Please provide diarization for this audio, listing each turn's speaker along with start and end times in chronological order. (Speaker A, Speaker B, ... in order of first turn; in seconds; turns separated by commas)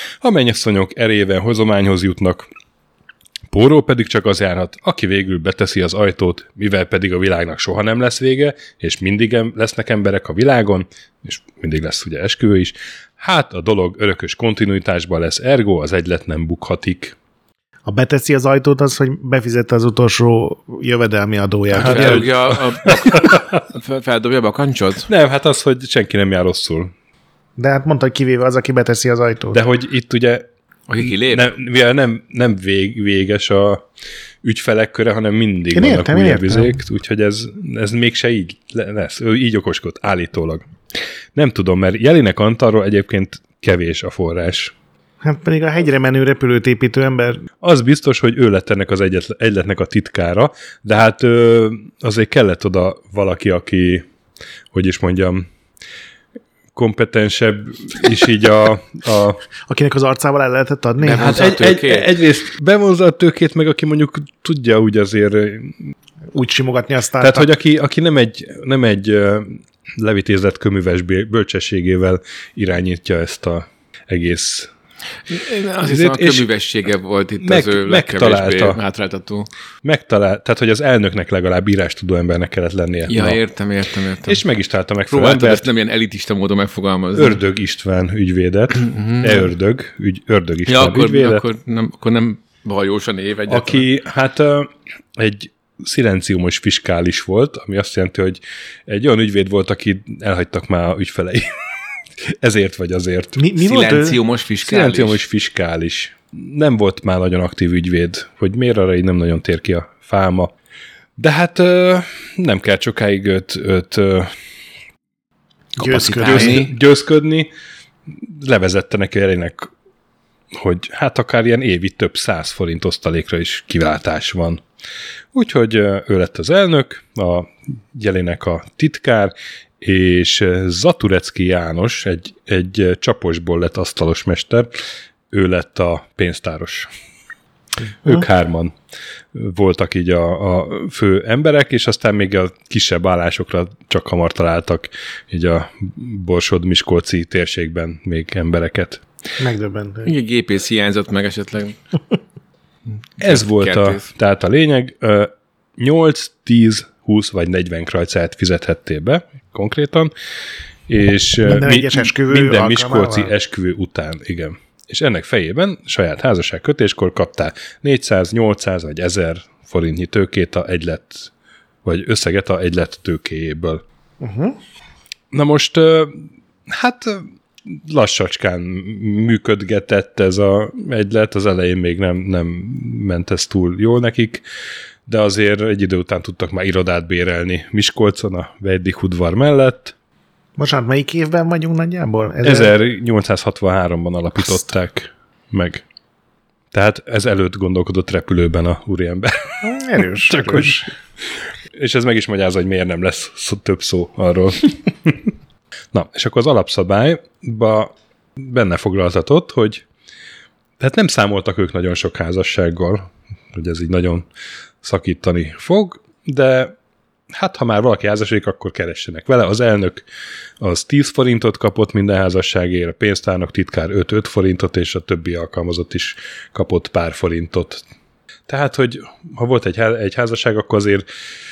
Speaker A: 0.2-2.5, Speaker A: 3.5-17.1, Speaker B: 17.9-22.3, Speaker C: 21.7-25.1, Speaker A: 21.8-23.6, Speaker A: 25.1-26.9, Speaker B: 27.6-29.6, Speaker A: 29.5-30.4, Speaker C: 30.9-31.5, Speaker A: 31.0-33.9, Speaker A: 34.4-40.7, Speaker B: 35.7-36.8, Speaker A: 41.3-44.7, Speaker B: 45.2-47.4, Speaker A: 47.6-54.0, Speaker A: 54.7-55.5, Speaker A: 56.7-59.4, Speaker B: 59.7-61.3, Speaker C: 61.0-62.1, Speaker A: 61.1-65.8, Speaker B: 66.3-67.5, Speaker A: 67.2-74.7, Speaker C: 75.3-79.5, Speaker A: 75.8-76.5, Speaker A: 77.4-78.8, Speaker A: 79.8-83.4, Speaker C: 83.1-84.4, Speaker A: 84.3-85.7, Speaker C: 85.1-87.4, Speaker A: 87.1-91.4, Speaker C: 88.8-89.5, Speaker C: 90.7-93.8, Speaker A: 93.5-101.5, Speaker A: 102.2-103.4, Speaker B: 103.3-104.2, Speaker C: 103.6-105.2, Speaker A: 104.6-110.5, Speaker A: 111.2-114.3, Speaker B: 115.8-116.6, Speaker C: 115.8-116.7, Speaker A: 116.2-117.5, Speaker A: 118.1-119.7, Speaker A: 120.5-124.6, Speaker A: 125.3-134.7, Speaker A: 135.3-136.9, Speaker A: 138.0-138.8, Speaker A: 139.3-149.0, Speaker B: 149.4-150.1, Speaker C: 150.0-151.8, Speaker C: 153.2-154.1, Speaker A: 153.2-160.1, Speaker A: 160.9-171.3, Speaker B: 161.4-163.3, Speaker A: 171.8-173.8, Speaker B: 174.2-174.6, Speaker A: 175.3-184.4, Speaker A: 185.1-189.9, Speaker B: 190.6-192.7, Speaker A: 192.4-195.8, Speaker A: 196.7-199.6, Speaker B: 199.6-200.9, Speaker A: 200.3-200.8, Speaker A: 201.7-205.3, Speaker A: 205.9-209.8, Speaker A: 210.8-214.3, Speaker A: 214.8-216.7, Speaker A: 217.3-220.0, Speaker A: 220.6-227.8, Speaker A: 228.5-231.1